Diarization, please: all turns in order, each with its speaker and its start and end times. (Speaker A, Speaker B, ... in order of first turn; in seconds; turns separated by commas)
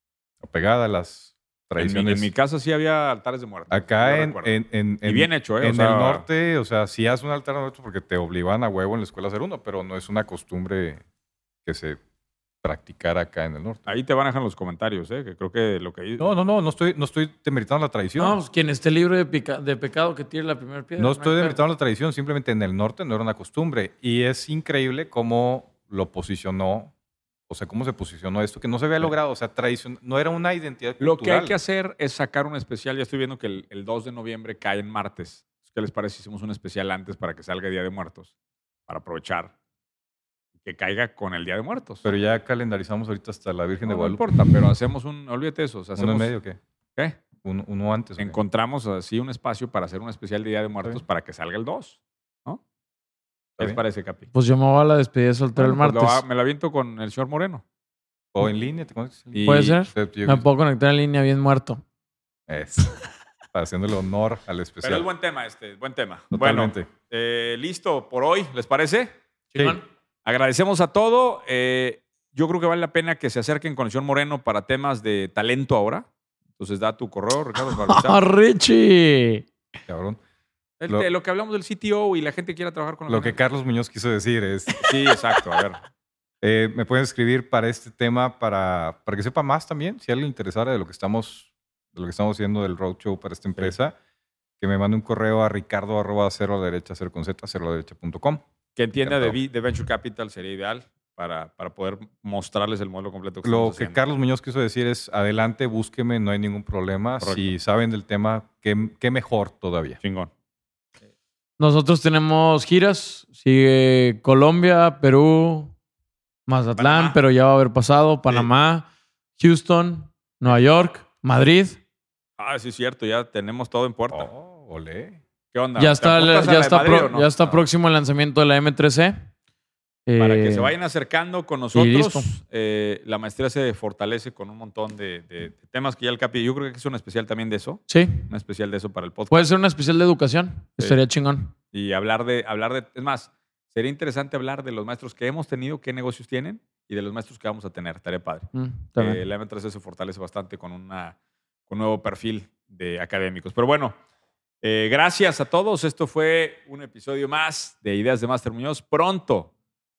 Speaker A: 0.4-2.3, Speaker B: 1.8-6.2, Speaker A: 3.7-11.0, Speaker A: 11.7-12.0, Speaker A: 12.6-13.9, Speaker B: 13.9-16.3, Speaker A: 16.2-18.4, Speaker C: 18.2-21.6, Speaker A: 21.0-26.9, Speaker A: 27.5-31.6, Speaker B: 31.0-38.3, Speaker B: 38.9-39.5, Speaker B: 40.6-42.1, Speaker A: 42.0-44.6, Speaker B: 43.8-46.4, Speaker A: 46.0-46.6, Speaker A: 47.4-48.4, Speaker B: 48.2-52.6, Speaker B: 53.6-54.3, Speaker C: 54.3-56.2, Speaker B: 55.6-57.6, Speaker A: 58.3-60.5, Speaker B: 59.3-59.8, Speaker C: 59.4-61.8, Speaker A: 62.5-62.9, Speaker A: 63.5-65.1, Speaker B: 64.8-69.2, Speaker A: 66.3-66.9, Speaker C: 69.5-69.8, Speaker B: 70.2-78.2, Speaker C: 77.7-79.5, Speaker A: 79.9-80.2, Speaker B: 80.8-83.4, Speaker A: 83.1-84.8, Speaker B: 84.8-85.8, Speaker A: 86.4-94.0, Speaker A: 94.6-98.4, Speaker B: 98.8-104.0, Speaker A: 99.0-99.4, Speaker A: 103.4-110.0, Speaker B: 107.2-107.5, Speaker B: 110.0-110.3, Speaker C: 111.6-115.7, Speaker C: 116.5-121.8, Speaker B: 116.8-117.2, Speaker B: 122.4-124.3, Speaker A: 124.1-125.2, Speaker B: 125.5-127.6, Speaker C: 125.8-129.2, Speaker C: 130.1-130.7, Speaker B: 130.2-139.5, Speaker C: 131.7-132.3, Speaker C: 137.9-138.3, Speaker C: 139.3-141.5, Speaker B: 141.7-151.2, Speaker C: 148.5-149.2, Speaker B: 151.7-154.0, Speaker B: 154.6-159.5